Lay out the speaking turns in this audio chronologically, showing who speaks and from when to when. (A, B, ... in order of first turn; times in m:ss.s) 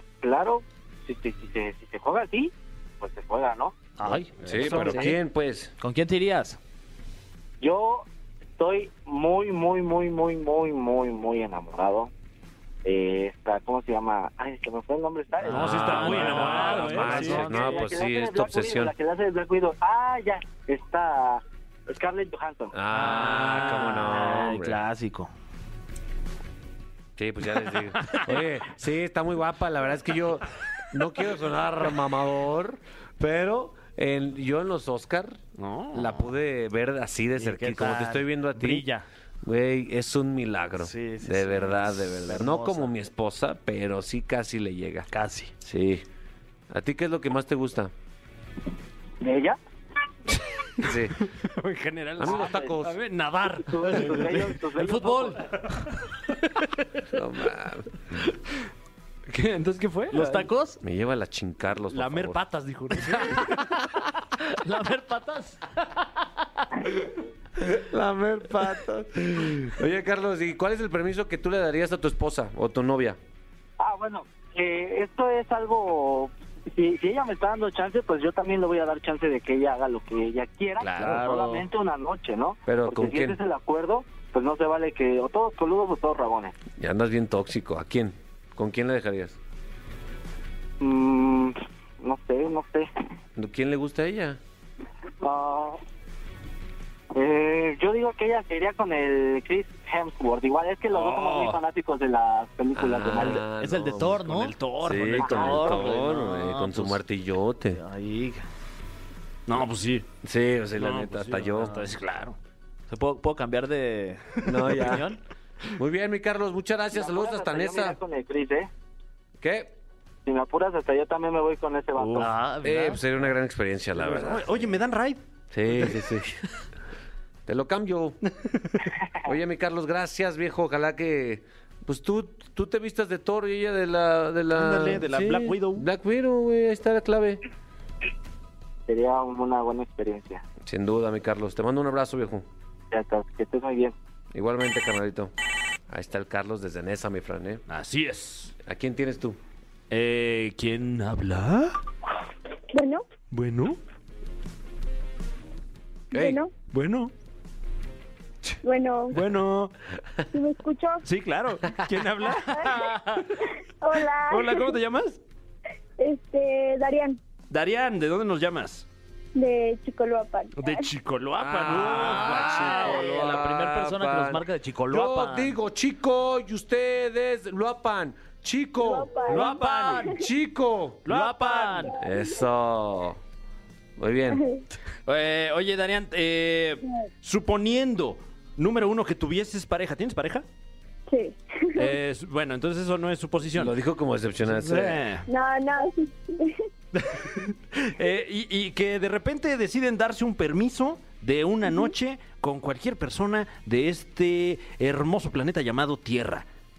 0:00.2-0:03.8 A
0:04.0-0:05.1 B
0:04.1-0:05.1 C
0:04.4-0:05.7 D
0:05.8-0:06.6 B
0:07.6-0:08.0 A
0:08.6-0:12.1 A
0:12.8-0:16.4 A
0:15.4-0:17.8 B
0:15.5-0:17.6 C
0:15.5-0:18.9 D
0:17.0-0:22.7 A
0:22.7-0:24.8 D
0:22.9-0:25.3 B
0:27.2-0:35.4 D
0:35.6-0:36.2 C
0:35.9-0:38.9 D
0:37.4-0:39.0 B
0:39.4-0:45.1 D
0:40.8-0:42.9 B
0:45.1-0:45.5 B
0:45.6-0:46.0 D
0:46.7-0:47.9 D
0:49.2-0:49.6 A
0:50.8-0:51.2 D
0:51.1-0:54.5 C
0:52.2-0:53.0 D
0:52.2-0:52.8 A
0:53.7-0:55.4 A
0:54.8-0:55.8 B
0:57.1-0:57.9 D
0:59.3-1:00.5 C
1:00.1-1:00.8 B
1:00.8-1:02.4 D
1:01.9-1:03.6 C
1:03.0-1:03.6 D
1:03.4-1:05.6 B
1:07.6-1:13.2 D
1:13.8-1:26.6 A
1:21.0-1:21.6 B
1:21.0-1:21.3 C
1:22.7-1:23.4 D
1:26.8-1:29.4 D
1:30.8-1:32.9 A
1:33.4-1:34.4 D
1:35.2-1:35.8 A
1:37.1-1:43.4 A
1:40.9-1:41.6 C
1:42.7-1:44.2 D
1:43.2-1:47.0 B
1:44.2-1:45.8 C
1:44.8-1:47.8 D
1:45.2-1:45.9 A
1:47.7-1:48.4 B
1:49.5-1:50.1 C
1:50.2-1:51.8 D
1:50.8-1:52.4 C
1:52.9-1:55.2 B
1:54.4-1:55.1 D
1:55.7-1:58.0 D
1:56.9-1:58.7 A
1:59.4-1:59.7 D
2:00.2-2:02.3 A
2:02.0-2:02.3 C
2:02.2-2:03.0 B
2:02.6-2:04.5 D
2:03.9-2:05.2 C
2:05.5-2:06.4 D
2:07.5-2:08.2 D
2:09.2-2:17.4 D
2:14.5-2:15.8 C
2:18.9-2:20.4 A
2:20.6-2:22.4 D
2:22.9-2:23.9 A
2:24.3-2:25.3 D
2:25.9-2:27.6 D
2:27.7-2:28.5 C
2:28.6-2:29.4 D
2:29.9-2:31.8 C
2:32.7-2:33.0 E
2:33.3-2:33.8 C
2:36.1-2:36.5 E
2:36.1-2:36.4 D
2:36.7-2:37.1 C
2:38.6-2:39.2 E
2:39.1-2:39.7 C
2:40.3-2:41.0 E
2:41.0-2:43.4 C
2:42.4-2:44.8 E
2:44.2-2:45.2 C
2:46.0-2:47.2 E
2:47.5-2:48.8 C
2:49.3-2:50.9 E
2:50.6-2:53.2 C
2:51.4-3:01.0 D
2:51.7-2:55.6 B
2:58.8-3:00.0 E
2:59.2-3:00.2 C
2:59.3-3:00.0 B
3:01.0-3:02.0 C
3:01.1-3:01.9 B
3:02.0-3:03.2 D
3:04.0-3:04.4 D
3:04.3-3:04.6 E
3:05.0-3:10.4 C
3:11.1-3:12.0 E
3:11.7-3:13.7 C
3:13.5-3:15.0 D
3:14.5-3:15.3 C
3:15.3-3:16.6 E
3:17.0-3:26.4 C